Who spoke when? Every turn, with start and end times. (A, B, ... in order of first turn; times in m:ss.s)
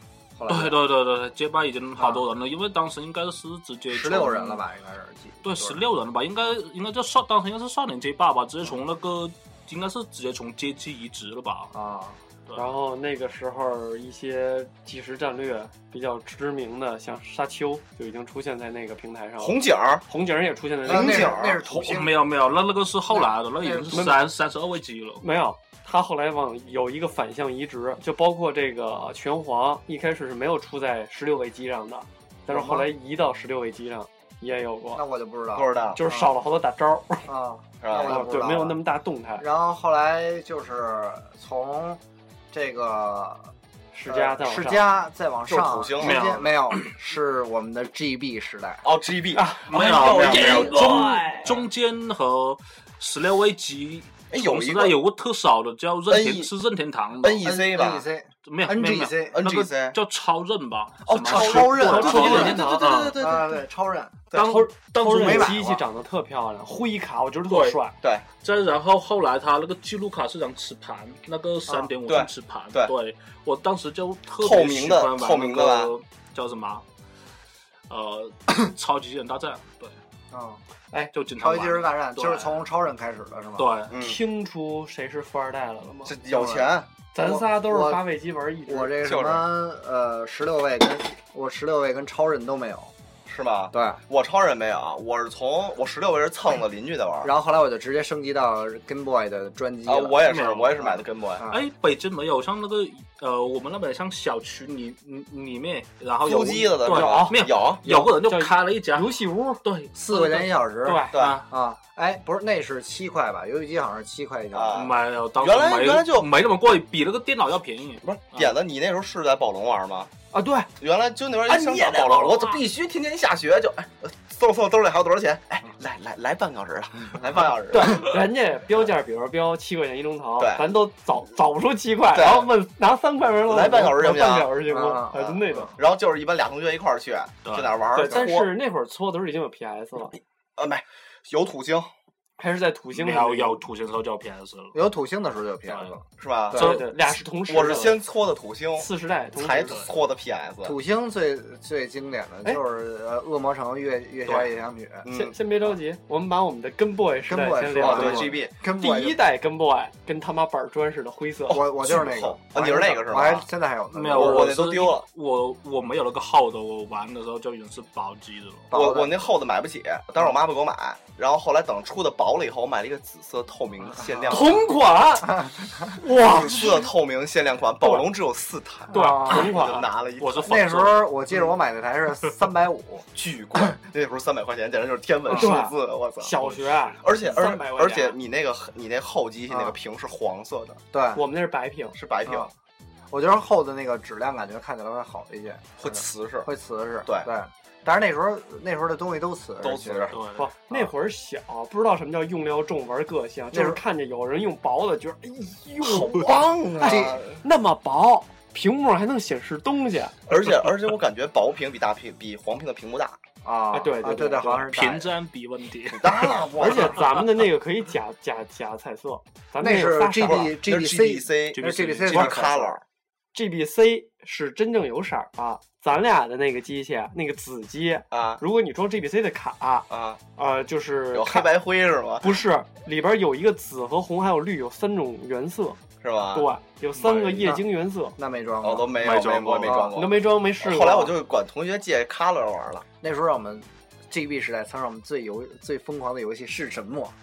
0:00.4-0:00.8 A
0:00.5-0:04.6 B
0:02.0-0:02.2 A
0:03.9-0:05.8 A
0:05.4-0:11.7 B
0:11.7-0:12.2 A
0:12.6-0:21.4 C
0:19.4-0:20.0 D
0:20.8-0:21.6 D
0:20.8-0:22.1 A
0:21.6-0:25.2 B
0:23.1-0:24.1 A
0:23.9-0:24.2 C
0:25.2-0:35.0 C
0:32.5-0:32.9 A
0:35.0-0:36.3 A
0:35.5-0:36.0 D
0:36.0-0:37.3 C
0:37.3-0:38.8 A
0:37.8-0:38.2 D
0:38.0-0:39.4 C
0:39.4-0:42.0 A
0:42.5-0:43.5 A
0:43.9-0:44.8 C
0:44.1-0:48.8 A
0:45.5-0:46.2 D
0:46.0-0:46.9 B
0:48.8-0:51.1 D
0:49.3-0:51.6 C
0:49.7-0:57.5 B
0:54.3-0:55.0 D
0:56.1-0:56.5 D
0:57.2-0:58.1 D
0:57.4-0:59.4 A
0:58.5-1:03.2 B
0:59.3-1:00.0 D
1:01.0-1:03.6 D
1:01.3-1:03.1 C
1:02.0-1:02.5 A
1:03.2-1:04.2 A
1:04.3-1:04.6 D
1:04.4-1:07.9 C
1:04.4-1:05.5 B
1:05.0-1:05.8 A
1:07.5-1:07.8 B
1:08.4-1:16.8 B
1:12.1-1:12.9 D
1:14.4-1:15.9 D
1:17.9-1:20.0 B
1:20.3-1:20.6 A
1:21.1-1:22.7 B
1:21.4-1:23.7 A
1:23.6-1:23.9 B
1:23.9-1:24.2 D
1:24.0-1:26.2 C
1:26.0-1:26.9 D
1:26.3-1:28.0 A
1:27.1-1:28.9 C
1:28.7-1:32.9 A
1:29.0-1:29.5 D
1:33.3-1:37.3 D
1:33.7-1:34.0 A
1:37.2-1:40.2 A
1:39.8-1:41.5 D
1:40.2-1:40.8 B
1:40.8-1:41.6 A
1:41.5-1:50.5 B
1:46.2-1:47.8 D
1:46.9-1:49.6 C
1:50.0-1:54.9 A
1:50.8-1:51.2 C
1:51.1-1:51.4 D
1:51.1-1:51.5 B
1:54.5-1:56.3 D
1:54.7-1:58.5 B
1:58.0-2:00.1 D
2:00.3-2:00.7 C
2:00.8-2:08.1 D
2:01.5-2:02.6 C
2:07.7-2:15.8 C
2:10.4-2:10.7 D
2:12.1-2:12.5 D
2:13.5-2:14.5 D
2:14.7-2:15.7 A
2:15.8-2:18.5 D
2:17.4-2:17.7 B
2:17.9-2:20.2 C
2:20.6-2:21.9 D
2:22.4-2:23.6 C
2:22.9-2:24.8 B
2:24.7-2:26.8 A
2:25.7-2:26.0 B
2:26.2-2:26.8 D
2:26.5-2:28.0 C
2:26.6-2:26.9 B
2:27.5-2:30.8 D
2:28.8-2:29.8 C
2:29.6-2:29.9 B
2:30.6-2:35.1 A
2:34.3-2:34.5 B
2:35.0-2:35.4 D
2:35.1-2:41.6 C
2:37.3-2:39.2 A
2:37.8-2:38.5 D
2:41.5-2:43.5 D
2:41.5-2:44.6 A
2:43.9-2:48.7 B
2:44.1-2:45.1 D
2:48.7-2:49.1 A
2:48.7-2:54.7 D
2:54.0-2:54.4 A
2:54.3-2:56.8 C
2:56.2-3:00.7 D
2:56.3-2:56.7 B
2:57.8-2:58.1 C
2:58.9-2:59.9 C
2:58.9-2:59.5 A
3:00.2-3:01.4 B
3:00.4-3:03.1 A
3:03.2-3:06.4 D
3:05.3-3:08.2 C
3:06.4-3:06.9 B
3:07.0-3:10.8 D
3:09.5-3:09.8 A
3:10.9-3:11.2 A
3:11.1-3:12.0 C
3:11.9-3:12.5 D
3:13.1-3:20.2 A
3:15.8-3:16.5 D
3:19.6-3:20.2 D
3:20.1-3:20.5 B
3:20.4-3:30.2 C
3:23.5-3:23.8 A
3:25.8-3:27.4 D
3:26.8-3:27.2 A
3:30.3-3:33.2 D
3:33.4-3:35.1 A
3:33.7-3:34.7 C
3:34.7-3:36.4 B
3:35.9-3:37.1 D
3:36.6-3:40.6 C
3:39.6-3:42.8 A
3:40.2-3:42.8 D
3:41.5-3:42.4 B
3:43.3-3:51.5 C
3:48.1-3:48.4 D
3:49.9-3:50.2 D
3:51.1-3:52.4 D
3:52.2-3:55.8 C
3:56.0-3:56.5 D
3:56.3-3:58.2 C
3:57.0-3:57.6 B
3:58.2-3:58.9 A
3:58.6-4:02.9 D
3:59.0-3:59.9 B
3:59.9-4:01.1 C
4:03.0-4:07.2 A